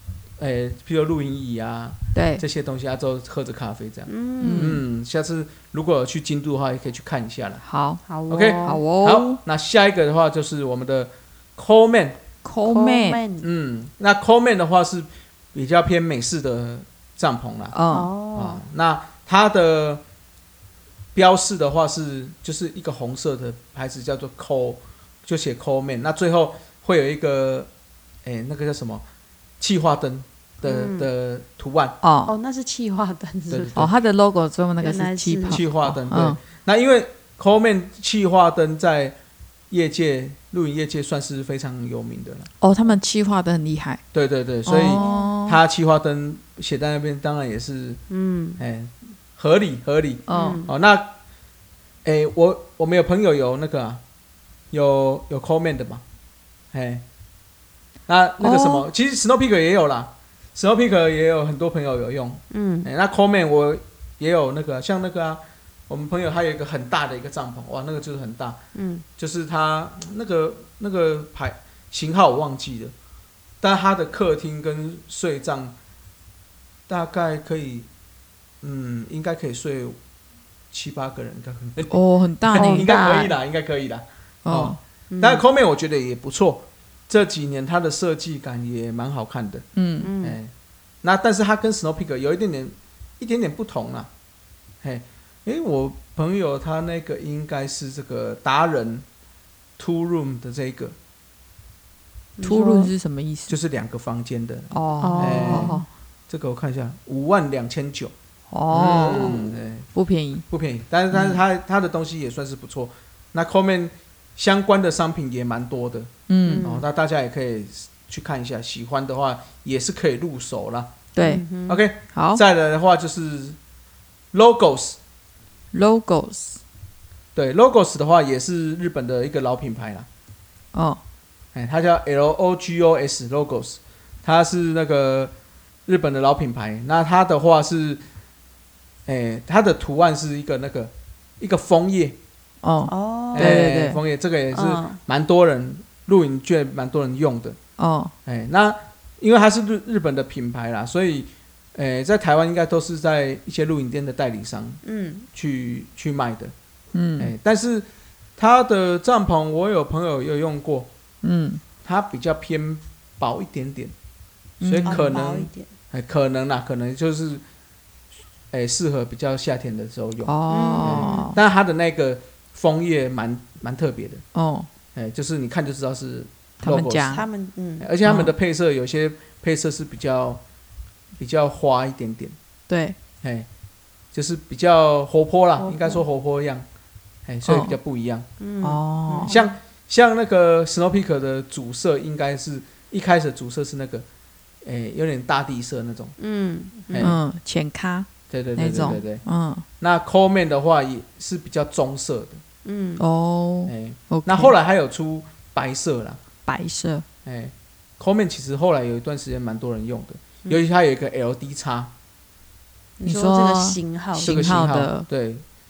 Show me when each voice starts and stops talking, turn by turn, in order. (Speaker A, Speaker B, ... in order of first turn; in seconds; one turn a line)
Speaker A: 0.4-7.6
Speaker B: 2.1-2.4
Speaker C: 4.1-4.8
Speaker B: 4.4-4.8
Speaker B: 7.6-8.0
Speaker C: 8.1-8.8
Speaker A: 8.3-12.2
Speaker B: 8.6-9.4
Speaker B: 12.4-13.2
Speaker C: 12.6-13.4
Speaker A: 13.4-17.8
Speaker B: 17.7-18.1
Speaker C: 17.9-18.6
Speaker A: 18.4-20.0
Speaker A: 21.1-27.7
Speaker A: 28.2-29.0
Speaker A: 29.6-32.0
Speaker C: 30.6-31.1
Speaker B: 32.0-32.3
Speaker C: 32.2-33.9
Speaker A: 33.5-33.9
Speaker B: 33.8-36.4
Speaker C: 34.8-35.6
Speaker A: 35.5-39.1
Speaker A: 39.7-42.5
Speaker B: 42.6-44.0
Speaker A: 44.1-48.0
Speaker B: 44.6-45.6
Speaker C: 44.8-45.3
Speaker C: 48.1-48.6
Speaker A: 48.6-51.1
Speaker B: 50.3-50.6
Speaker C: 50.3-50.7
Speaker A: 52.0-54.0
Speaker A: 54.7-56.0
Speaker A: 56.7-57.0
Speaker A: 58.1-68.6
Speaker B: 58.4-58.7
Speaker C: 58.5-58.8
Speaker C: 62.5-62.9
Speaker C: 68.7-69.0
Speaker A: 69.2-72.9
Speaker A: 73.6-75.7
Speaker A: 76.9-77.9
Speaker A: 78.6-80.0
Speaker A: 80.7-89.6
Speaker B: 81.9-83.3
Speaker C: 82.5-83.2
Speaker B: 84.4-84.8
Speaker C: 85.1-85.4
Speaker B: 89.8-90.1
Speaker C: 90.0-90.4
Speaker A: 90.2-90.5
Speaker A: 91.0-94.1
Speaker A: 94.8-99.0
Speaker A: 99.8-100.9
Speaker C: 102.4-102.9
Speaker B: 102.4-103.5
Speaker A: 103.5-108.1
Speaker B: 104.7-105.9
Speaker C: 105.0-105.8
Speaker B: 108.5-109.3
Speaker A: 108.7-109.9
Speaker C: 109.1-109.6
Speaker B: 109.9-110.5
Speaker A: 110.5-116.1
Speaker B: 111.1-111.4
Speaker B: 116.3-116.7
Speaker C: 116.4-116.8
Speaker A: 116.6-120.9
Speaker B: 121.1-121.4
Speaker C: 121.2-121.8
Speaker A: 121.7-123.6
Speaker B: 122.1-122.4
Speaker A: 124.3-125.0
Speaker B: 125.7-126.6
Speaker A: 127.3-130.1
Speaker B: 130.7-131.0
Speaker A: 131.5-135.3
Speaker A: 135.8-138.0
Speaker A: 139.1-142.2
Speaker B: 142.6-144.0
Speaker C: 142.9-143.6
Speaker A: 143.3-147.6
Speaker C: 144.5-145.0
Speaker B: 147.8-148.1
Speaker A: 148.2-154.8
Speaker C: 154.8-155.3
Speaker A: 155.3-156.5
Speaker B: 156.9-157.3
Speaker A: 157.2-160.9
Speaker B: 161.2-161.6
Speaker A: 161.8-163.9
Speaker B: 164.6-165.1
Speaker A: 164.6-167.4
Speaker C: 164.8-165.7
Speaker A: 168.5-174.2
Speaker B: 170.2-171.4
Speaker C: 170.5-171.3
Speaker B: 174.3-174.7
Speaker A: 174.9-177.1
Speaker B: 176.6-177.3
Speaker C: 177.1-177.9
Speaker A: 177.8-180.4
Speaker B: 178.0-178.3
Speaker A: 181.2-182.3
Speaker B: 182.7-183.0
Speaker A: 183.2-183.5
Speaker A: 184.1-186.7
Speaker C: 185.6-186.0
Speaker A: 187.3-188.2
Speaker B: 187.4-187.8
Speaker C: 188.4-189.5
Speaker B: 188.6-189.4
Speaker A: 189.2-194.1
Speaker A: 194.6-196.1
Speaker C: 196.2-197.1
Speaker A: 196.9-197.2
Speaker B: 197.0-199.7
Speaker A: 198.3-199.2
Speaker A: 199.8-202.4
Speaker C: 202.6-203.0
Speaker B: 203.0-204.5
Speaker A: 203.7-206.2
Speaker B: 206.4-207.0
Speaker A: 207.2-211.9
Speaker C: 213.0-214.5
Speaker B: 213.0-215.1
Speaker A: 214.2-215.4